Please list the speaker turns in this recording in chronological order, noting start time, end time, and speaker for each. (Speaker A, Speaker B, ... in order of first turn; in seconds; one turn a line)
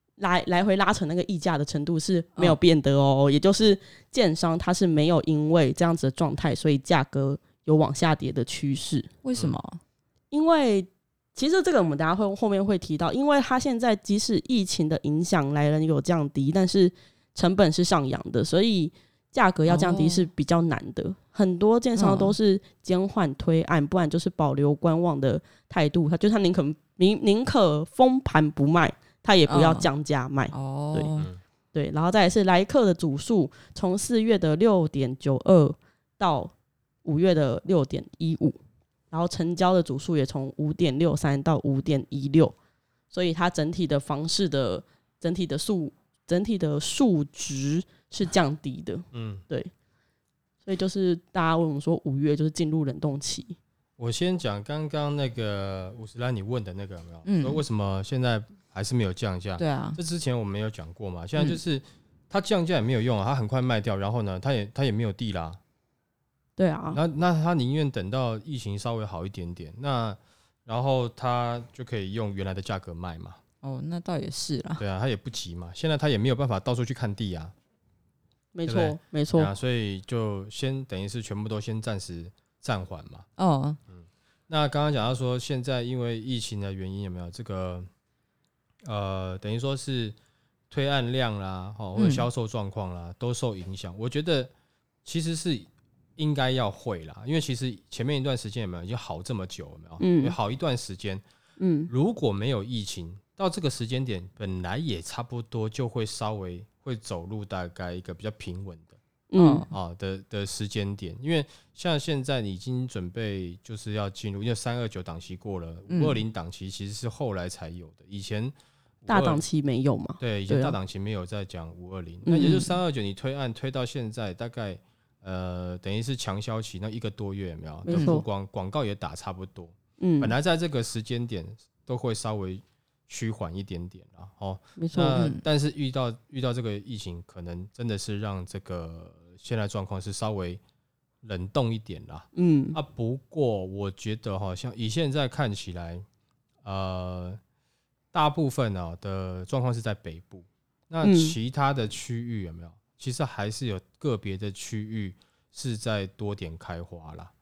Speaker A: 0.2-9.1
Speaker B: 9.2-9.8
Speaker A: 10.3-31.1
Speaker B: 19.7-20.3
Speaker B: 22.0-22.3
Speaker B: 29.5-29.9
Speaker B: 30.5-31.3
Speaker A: 31.7-36.5
Speaker A: 37.0-38.6
Speaker A: 39.1-42.5
Speaker A: 43.1-49.7
Speaker C: 49.1-49.4
Speaker A: 50.6-53.6
Speaker C: 54.0-65.6
Speaker B: 57.2-57.6
Speaker B: 59.6-60.0
Speaker A: 66.6-67.0
Speaker C: 66.9-73.4
Speaker B: 73.6-74.8
Speaker C: 74.8-77.5
Speaker A: 78.5-79.5
Speaker C: 78.7-83.3
Speaker B: 83.4-83.8
Speaker C: 83.9-87.9
Speaker C: 88.8-90.2
Speaker C: 90.7-94.5
Speaker B: 92.0-92.2
Speaker C: 95.0-101.2
Speaker A: 100.0-100.3
Speaker A: 101.6-101.9
Speaker C: 101.9-109.0
Speaker A: 109.3-109.6
Speaker B: 109.4-109.7
Speaker C: 109.7-119.4
Speaker B: 115.9-116.2
Speaker A: 119.1-120.8
Speaker C: 120.2-140.6
Speaker B: 122.3-122.7
Speaker A: 127.9-128.2
Speaker B: 127.9-128.2
Speaker A: 130.0-130.3
Speaker A: 134.8-135.3
Speaker C: 141.2-146.0
Speaker A: 142.3-142.8
Speaker C: 146.6-147.4
Speaker C: 148.1-157.3
Speaker A: 151.0-151.3